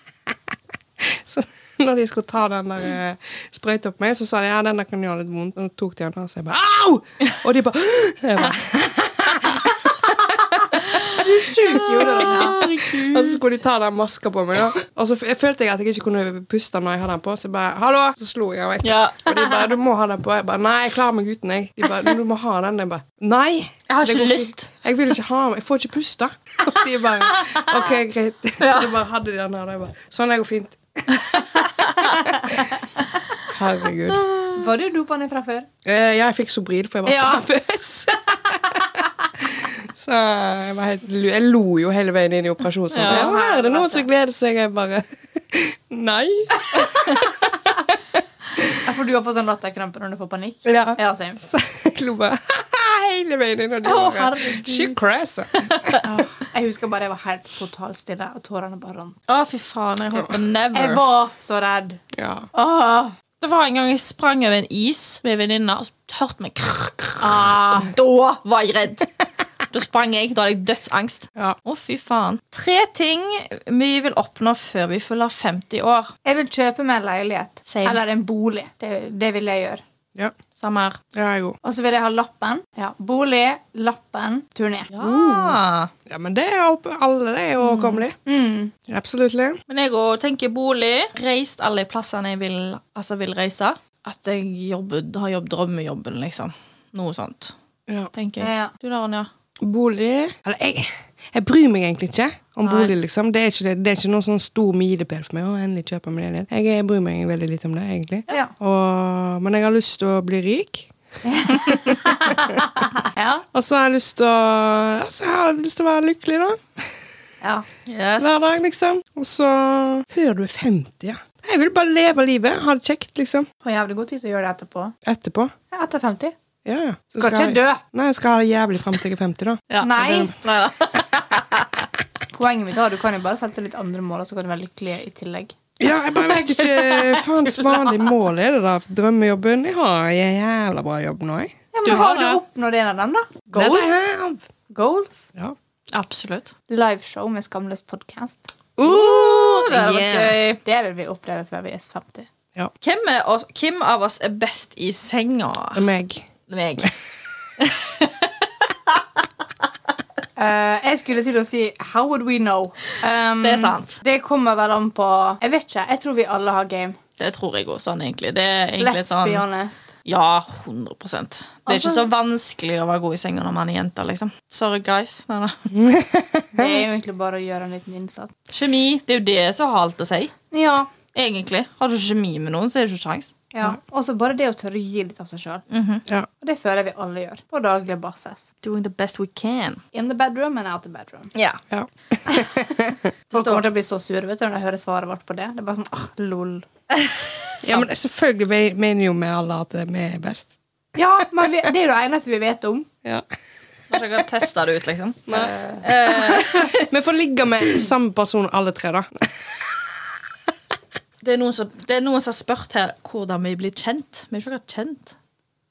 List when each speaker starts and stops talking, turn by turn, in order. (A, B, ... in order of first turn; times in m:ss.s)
0:01.0-0:31.2 A
0:11.2-0:12.6 B
0:12.2-0:13.4 C
0:18.8-0:19.6 C
0:23.9-0:24.7 C
0:28.6-0:29.0 C
0:31.8-0:32.2 C
0:33.5-0:34.2 A
0:34.1-0:34.5 C
0:34.5-0:35.7 B
0:35.8-0:38.8 A
0:37.1-0:37.4 B
0:39.4-0:47.3 A
0:42.9-0:43.3 C
0:43.0-0:44.1 B
0:48.8-0:51.4 B
0:50.6-0:56.0 A
0:53.8-0:54.9 C
0:55.6-0:56.0 C
0:56.0-0:59.2 B
0:59.3-1:01.0 C
1:00.7-1:02.0 B
1:02.1-1:02.5 A
1:02.5-1:03.1 B
1:03.4-1:09.1 C
1:07.2-1:07.9 B
1:09.7-1:16.1 C
1:16.2-1:19.8 B
1:17.7-1:18.0 C
1:20.6-1:21.0 C
1:21.1-1:21.6 A
1:21.6-1:24.9 B
1:24.9-1:25.9 C
1:25.0-1:28.2 A
1:27.6-1:28.0 C
1:28.3-1:28.7 B
1:28.9-1:29.6 A
1:29.7-1:37.6 C
1:38.2-1:39.3 C
1:38.4-1:38.7 B
1:39.6-1:50.9 A
1:42.6-1:42.9 C
1:51.2-1:53.4 B
1:51.5-1:52.4 A
1:53.5-1:56.9 A
1:57.4-1:57.7 B
1:57.9-1:58.6 C
1:58.2-2:03.5 A
2:03.6-2:05.0 B
2:05.0-2:05.5 A
2:05.7-2:06.3 B
2:06.6-2:10.3 A
2:07.2-2:07.8 B
2:09.7-2:11.7 C
2:09.8-2:10.4 B
2:12.3-2:18.1 B
2:15.8-2:21.6 A
2:21.7-2:24.1 B
2:21.8-2:22.4 C
2:23.5-2:24.4 A
2:24.7-2:25.3 B
2:25.9-2:26.5 C
2:26.7-2:28.5 B
2:28.8-2:30.4 A
2:28.8-2:30.6 C
2:30.6-2:32.3 B
2:32.8-2:35.9 C
2:35.8-2:36.3 A
2:36.5-2:36.9 C
2:37.6-2:39.0 C
2:40.4-2:47.0 B
2:43.4-2:44.0 C
2:47.2-2:49.4 C
2:48.8-2:49.9 B
2:50.0-2:55.6 C
2:51.7-2:52.1 B
2:55.7-2:56.8 A
2:56.6-2:58.3 B
2:58.5-3:00.3 C
3:00.5-3:00.9 B
3:01.1-3:03.3 C
3:03.5-3:05.6 B
3:05.7-3:06.0 C
3:06.4-3:08.5 B
3:08.6-3:09.8 C
3:09.9-3:11.3 B
3:11.4-3:11.6 C
3:11.7-3:13.0 A
3:12.3-3:16.7 B
3:13.3-3:13.6 C
3:17.0-3:17.9 C
3:17.6-3:20.5 A
3:21.0-3:22.9 B
3:23.9-3:26.9 C
3:25.3-3:25.5 A
3:25.3-3:25.8 B
3:26.1-3:29.8 A
3:31.2-3:35.2 C